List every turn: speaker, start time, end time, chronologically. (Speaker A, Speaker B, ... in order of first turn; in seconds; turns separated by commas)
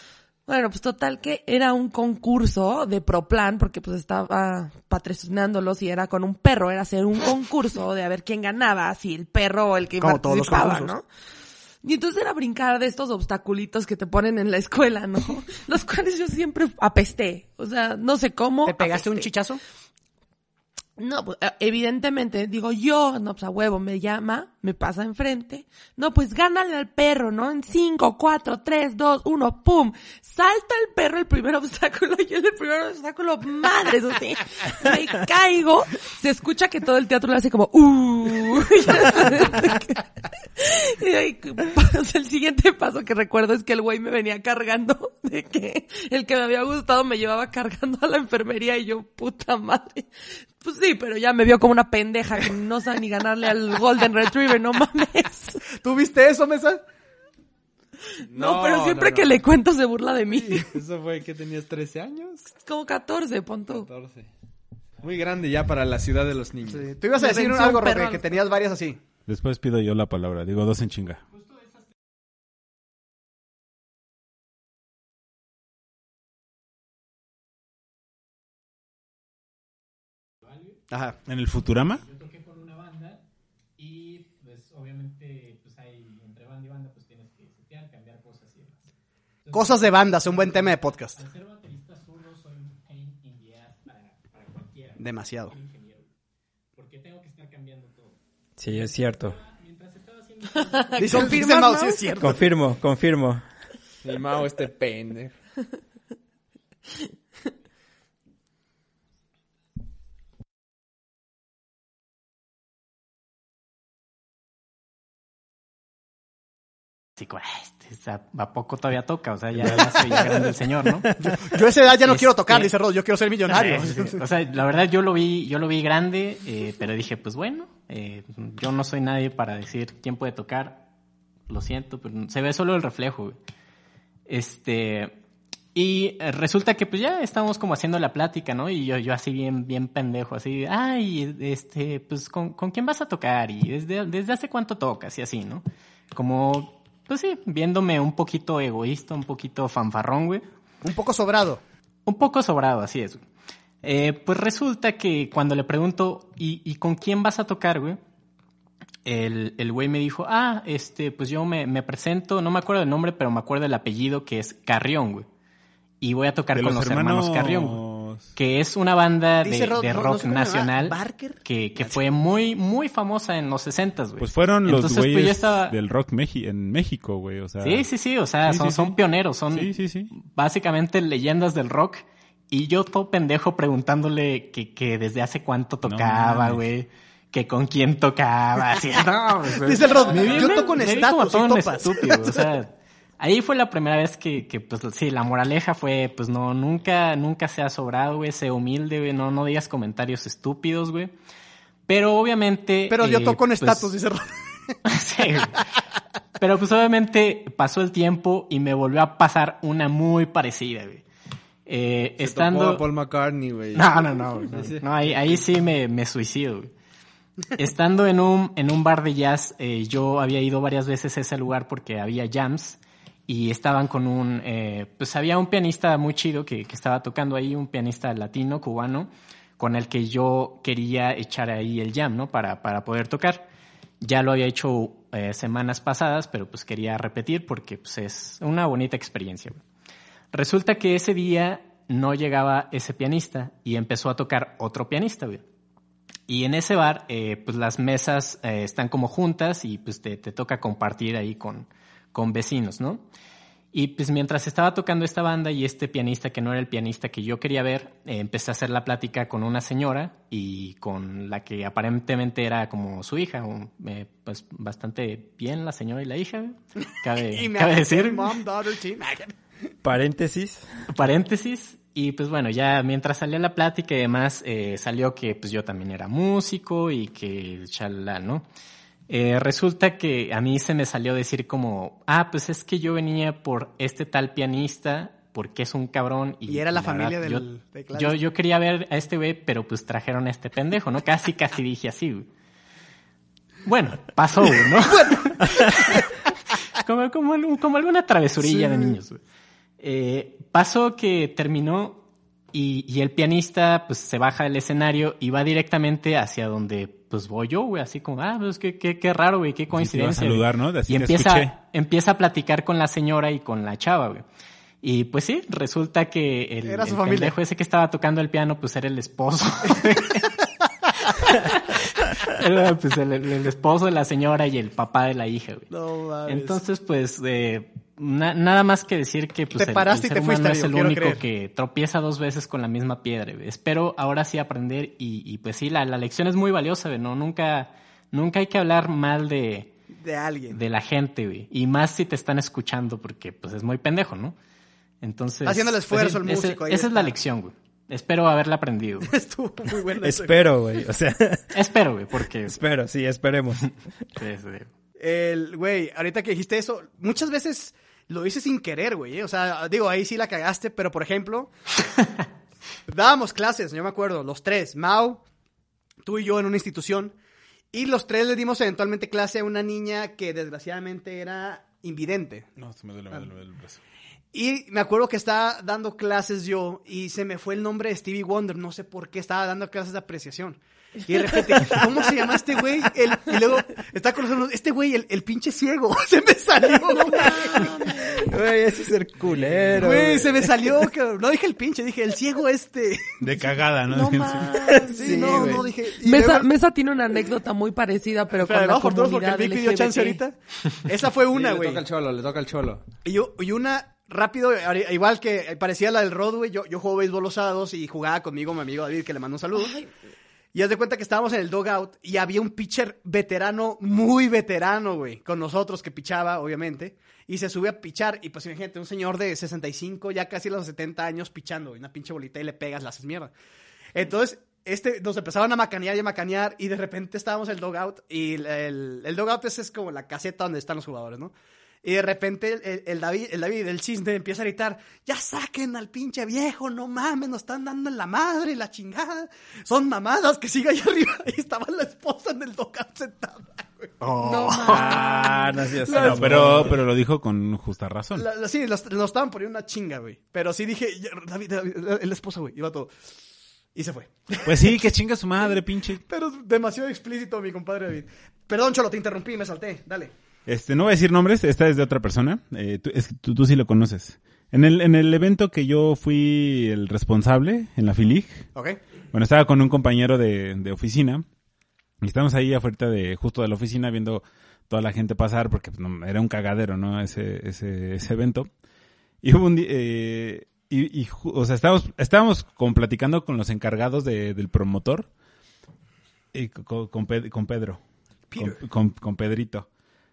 Speaker A: 0.5-11.1, Speaker B: 10.0-10.9, Speaker A: 11.8-19.3, Speaker B: 18.6-19.6, Speaker A: 21.0-50.1, Speaker A: 50.6-55.6, Speaker B: 55.7-56.8, Speaker A: 58.2-60.8, Speaker C: 58.2-59.4, Speaker C: 60.3-62.5, Speaker A: 62.6-63.9, Speaker C: 63.7-64.3, Speaker C: 65.0-66.9, Speaker B: 66.7-69.0, Speaker A: 67.2-68.2, Speaker D: 69.3-71.2, Speaker E: 80.5-80.7, Speaker B: 80.9-81.2, Speaker D: 81.3-82.0, Speaker E: 82.0-83.2, Speaker E: 83.8-88.8, Speaker E: 89.4-96.1, Speaker B: 89.5-91.2, Speaker B: 95.0-95.5, Speaker E: 96.8-101.4, Speaker F: 98.6-99.4, Speaker A: 100.7-102.2, Speaker B: 101.0-102.5, Speaker F: 102.2-103.4, Speaker C: 104.0-105.3, Speaker E: 117.2-121.1, Speaker B: 119.6-120.4, Speaker B: 121.2-124.2, Speaker E: 122.0-122.7, Speaker E: 123.5-130.9, Speaker E: 131.5-133.4, Speaker E: 134.3-135.2, Speaker E: 135.8-150.5, Speaker B: 150.8-151.6, Speaker E: 152.1-153.2, Speaker E: 153.8-158.0, Speaker E: 159.1-165.3, Speaker E: 166.0-167.8, Speaker D: 166.5-168.3, Speaker E: 168.3-175.7, Speaker B: 169.4-172.0, Speaker D: 174.2-177.9, Speaker E: 177.6-201.1, Speaker D: 178.5-178.9, Speaker D: 179.5-180.1, Speaker D: 185.9-186.6, Speaker B: 189.5-192.5, Speaker E: 201.9-203.9, Speaker B: 202.9-204.7, Speaker E: 204.8-205.6, Speaker E: 206.4-211.0, Speaker E: 211.7-212.9, Speaker C: 212.2-215.4, Speaker E: 213.7-216.7, Speaker E: 217.6-233.5, Speaker E: 234.0-239.6, Speaker E: 240.3-245.4, Speaker E: 246.3-253.0, Speaker E: 253.7-268.3, Speaker B: 267.3-269.3, Speaker F: 269.8-270.7, Speaker E: 270.9-278.5, Speaker E: 279.1-292.3, Speaker B: 286.5-288.2, Speaker E: 293.6-296.1, Speaker B: 294.9-296.1, Speaker E: 296.8-299.2, Speaker E: 299.8-314.2, Speaker D: 309.7-311.5, Speaker E: 314.8-320.3, Speaker B: 316.6-317.4, Speaker E: 321.1-325.7, Speaker B: 325.7-326.6, Speaker E: 326.3-339.7, Speaker B: 329.6-331.2, Speaker B: 340.0-340.6, Speaker E: 340.5-344.4, Speaker E: 345.0-349.1, Speaker B: 345.4-347.1, Speaker B: 349.1-350.4, Speaker F: 350.0-351.5, Speaker E: 351.5-352.6, Speaker F: 352.5-353.9, Speaker E: 354.2-354.7, Speaker B: 355.0-361.5, Speaker B: 362.9-365.2, Speaker B: 366.1-367.1, Speaker B: 367.7-372.5, Speaker D: 372.6-373.8, Speaker B: 374.3-388.2, Speaker A: 386.9-388.3, Speaker F: 388.2-390.5, Speaker C: 389.8-390.2, Speaker B: 389.8-393.3, Speaker D: 393.2-394.9, Speaker A: 393.9-400.2, Speaker F: 394.7-395.4, Speaker B: 394.9-396.5, Speaker C: 395.0-395.6, Speaker B: 398.3-401.8, Speaker C: 401.3-402.9, Speaker B: 403.1-409.8, Speaker A: 409.5-409.9, Speaker B: 410.5-423.3, Speaker B: 423.9-431.3, Speaker B: 431.8-443.9, Speaker E: 444.0-445.4, Speaker A: 444.2-446.1, Speaker F: 444.7-446.8, Speaker D: 445.9-448.3, Speaker B: 445.9-446.8, Speaker B: 448.2-452.9, Speaker B: 453.8-454.9, Speaker D: 454.4-456.0, Speaker B: 456.0-460.1, Speaker D: 460.5-468.5, Speaker D: 469.1-471.2, Speaker D: 472.0-478.5, Speaker D: 479.2-485.1, Speaker D: 486.3-487.8, Speaker B: 488.3-488.6, Speaker D: 488.4-489.7